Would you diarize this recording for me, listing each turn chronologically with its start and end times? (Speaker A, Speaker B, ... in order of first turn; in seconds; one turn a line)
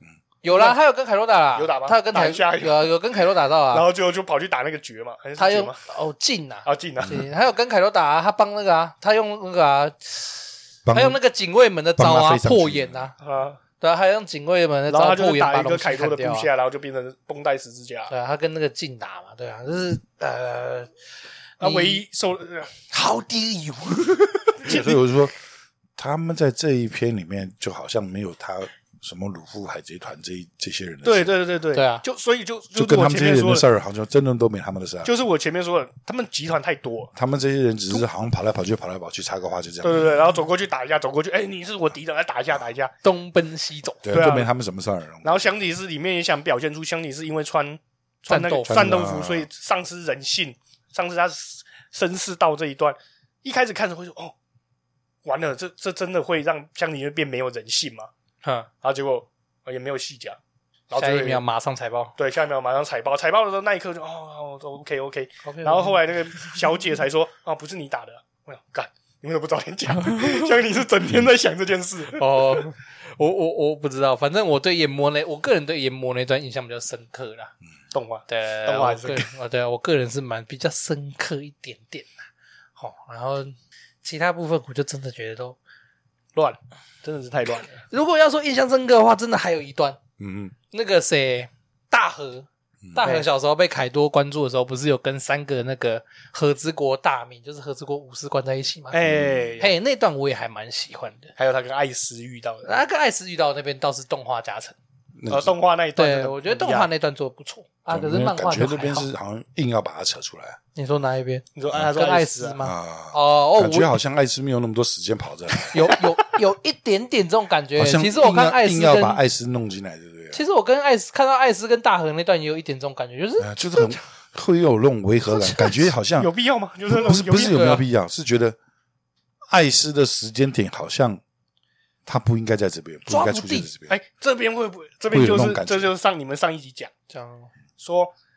Speaker A: 0.4-3.9
Speaker B: 1.6-2.9
Speaker B: 3.7-5.8
Speaker A: 5.4-13.2
Speaker B: 6.7-7.2
Speaker C: 7.0-7.3
Speaker C: 10.9-11.2
Speaker C: 12.0-13.1
Speaker B: 13.2-13.6
Speaker A: 13.8-16.5
Speaker B: 14.9-18.1
Speaker A: 18.1-20.9
Speaker B: 21.6-22.7
Speaker A: 21.6-22.0
Speaker A: 22.9-24.8
Speaker B: 24.6-25.0
Speaker C: 24.7-25.3
Speaker C: 26.0-31.4
Speaker B: 31.0-33.6
Speaker A: 31.8-32.0
Speaker C: 32.8-35.1
Speaker B: 35.0-37.1
Speaker C: 37.1-40.1
Speaker B: 39.8-42.9
Speaker A: 43.0-44.1
Speaker C: 44.0-45.5
Speaker B: 44.1-44.5
Speaker B: 45.2-54.4
Speaker A: 48.3-48.8
Speaker C: 48.7-49.5
Speaker B: 55.2-58.1
Speaker B: 58.8-60.4
Speaker B: 60.9-61.4
Speaker A: 61.0-62.1
Speaker B: 62.2-72.7
Speaker A: 65.5-66.5
Speaker A: 70.0-70.5
Speaker A: 72.1-77.5
Speaker B: 77.9-79.3
Speaker A: 78.3-82.1
Speaker A: 82.8-85.6
Speaker B: 86.3-87.8
Speaker A: 87.9-90.0
Speaker C: 90.2-90.5
Speaker A: 90.7-99.0
Speaker B: 93.0-93.2
Speaker B: 98.9-99.7
Speaker C: 99.1-99.6
Speaker A: 99.6-101.3
Speaker B: 101.4-102.8
Speaker A: 102.7-104.8
Speaker C: 105.2-105.5
Speaker B: 105.3-106.9
Speaker A: 106.0-109.1
Speaker C: 107.9-110.6
Speaker A: 110.8-113.9
Speaker B: 111.6-112.6
Speaker C: 112.6-115.7
Speaker A: 115.7-119.2
Speaker C: 117.8-120.4
Speaker A: 120.3-124.0
Speaker C: 123.4-126.3
Speaker A: 125.2-125.9
Speaker B: 126.2-127.7
Speaker C: 126.9-128.6
Speaker A: 127.5-127.8
Speaker C: 129.5-131.2
Speaker C: 132.1-134.0
Speaker A: 133.1-133.7
Speaker B: 133.9-136.9
Speaker C: 135.1-135.9
Speaker A: 137.1-137.5
Speaker B: 137.8-138.1